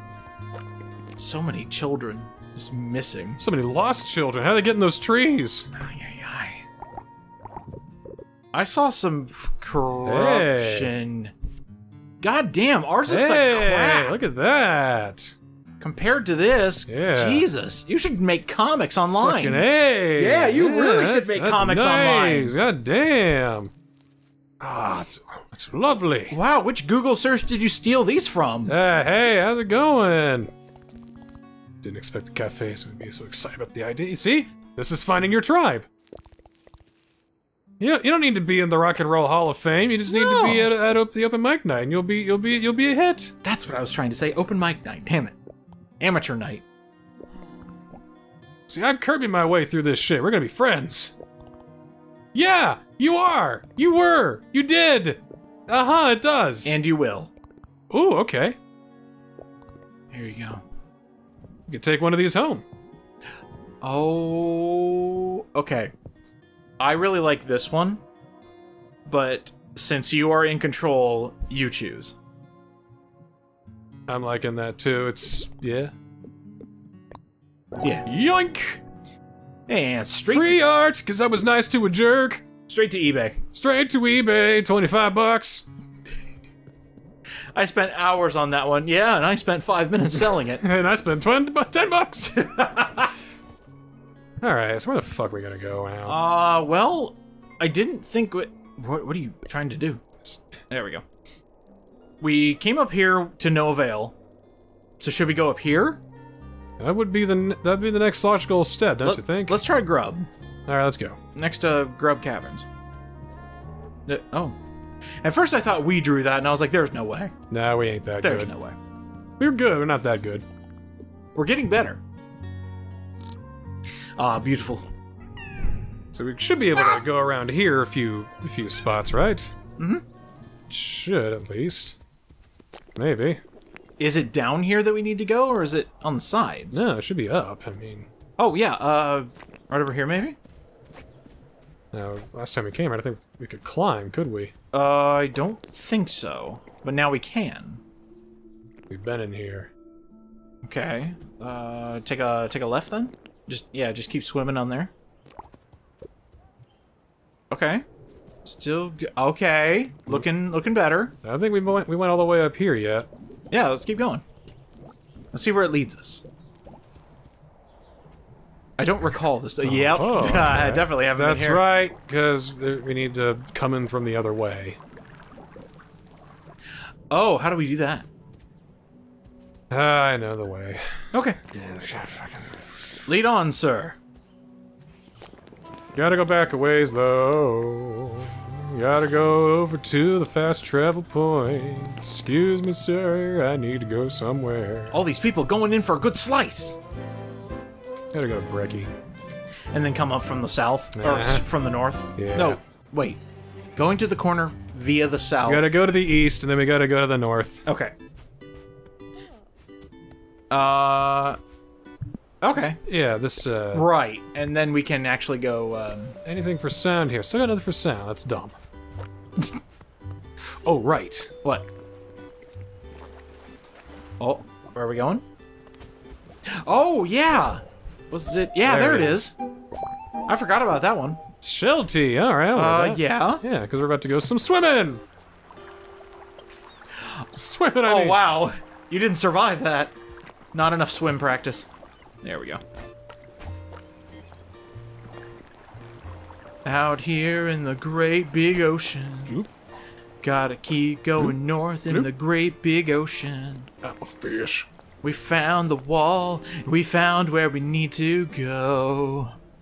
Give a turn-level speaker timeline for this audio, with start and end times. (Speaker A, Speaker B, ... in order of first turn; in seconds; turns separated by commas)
Speaker A: 1.2-3.4, Speaker B: 3.4-5.7, Speaker A: 5.7-6.6, Speaker A: 8.5-11.3, Speaker B: 10.0-10.9, Speaker A: 12.2-14.1, Speaker B: 13.1-15.3, Speaker A: 15.8-19.6, Speaker B: 16.9-17.4, Speaker B: 19.2-23.7, Speaker A: 20.1-22.5, Speaker B: 24.6-26.4, Speaker A: 26.3-28.7, Speaker B: 28.6-30.5, Speaker B: 31.8-35.9, Speaker B: 37.8-43.3, Speaker A: 40.1-40.7, Speaker A: 43.4-45.4, Speaker A: 46.0-46.6, Speaker B: 48.7-51.1, Speaker B: 52.3-56.8, Speaker A: 56.6-57.3, Speaker B: 57.9-58.6, Speaker A: 60.1-60.6, Speaker B: 61.7-62.6, Speaker A: 63.8-65.9, Speaker A: 66.8-68.0, Speaker A: 69.0-72.2, Speaker B: 74.1-75.9, Speaker B: 78.0-78.8, Speaker A: 79.7-80.6, Speaker B: 80.3-82.4, Speaker A: 82.7-83.4, Speaker B: 83.5-85.7, Speaker A: 87.5-90.6, Speaker B: 90.5-93.1, Speaker B: 94.4-96.2, Speaker A: 96.0-100.0, Speaker B: 100.2-100.5, Speaker A: 100.7-101.0, Speaker A: 102.2-104.2, Speaker A: 105.0-106.0, Speaker B: 106.8-109.6, Speaker A: 109.0-110.3, Speaker B: 110.7-111.2, Speaker A: 111.3-112.7, Speaker A: 114.1-114.5, Speaker A: 115.2-117.3, Speaker B: 117.5-118.5, Speaker A: 118.2-118.8, Speaker B: 119.4-120.4, Speaker A: 121.3-122.0, Speaker A: 124.2-124.9, Speaker B: 126.1-129.5, Speaker B: 130.7-132.0, Speaker B: 132.9-133.4, Speaker A: 134.0-136.9, Speaker B: 136.7-138.1, Speaker A: 138.4-140.4, Speaker B: 141.9-144.5, Speaker A: 144.7-147.8, Speaker B: 148.9-149.7, Speaker A: 150.6-154.9, Speaker A: 157.5-157.8, Speaker A: 158.4-161.1, Speaker B: 161.2-163.1, Speaker A: 163.5-164.2, Speaker A: 165.3-166.2, Speaker A: 168.8-171.6, Speaker B: 169.6-174.8, Speaker A: 177.1-178.1, Speaker B: 179.7-180.8, Speaker A: 181.1-181.4, Speaker B: 181.5-183.1, Speaker A: 183.1-183.9, Speaker B: 185.9-195.0, Speaker A: 194.9-196.8, Speaker B: 198.1-198.9, Speaker A: 199.7-203.2, Speaker B: 200.9-201.4, Speaker B: 202.2-202.6, Speaker A: 203.8-205.7, Speaker B: 205.4-207.6, Speaker A: 207.7-207.9, Speaker A: 210.5-211.4, Speaker A: 212.4-212.8, Speaker B: 212.8-213.9, Speaker A: 213.7-216.2, Speaker B: 216.2-218.6, Speaker B: 220.6-221.3, Speaker A: 224.2-225.2, Speaker A: 226.6-229.3, Speaker B: 228.6-229.3, Speaker A: 230.3-231.2, Speaker B: 231.4-235.0, Speaker A: 232.5-233.4, Speaker B: 237.3-238.2, Speaker A: 237.8-239.9, Speaker A: 240.5-241.7, Speaker A: 242.2-242.6, Speaker A: 246.6-249.3, Speaker A: 250.2-253.7, Speaker B: 253.8-254.7, Speaker A: 255.0-259.3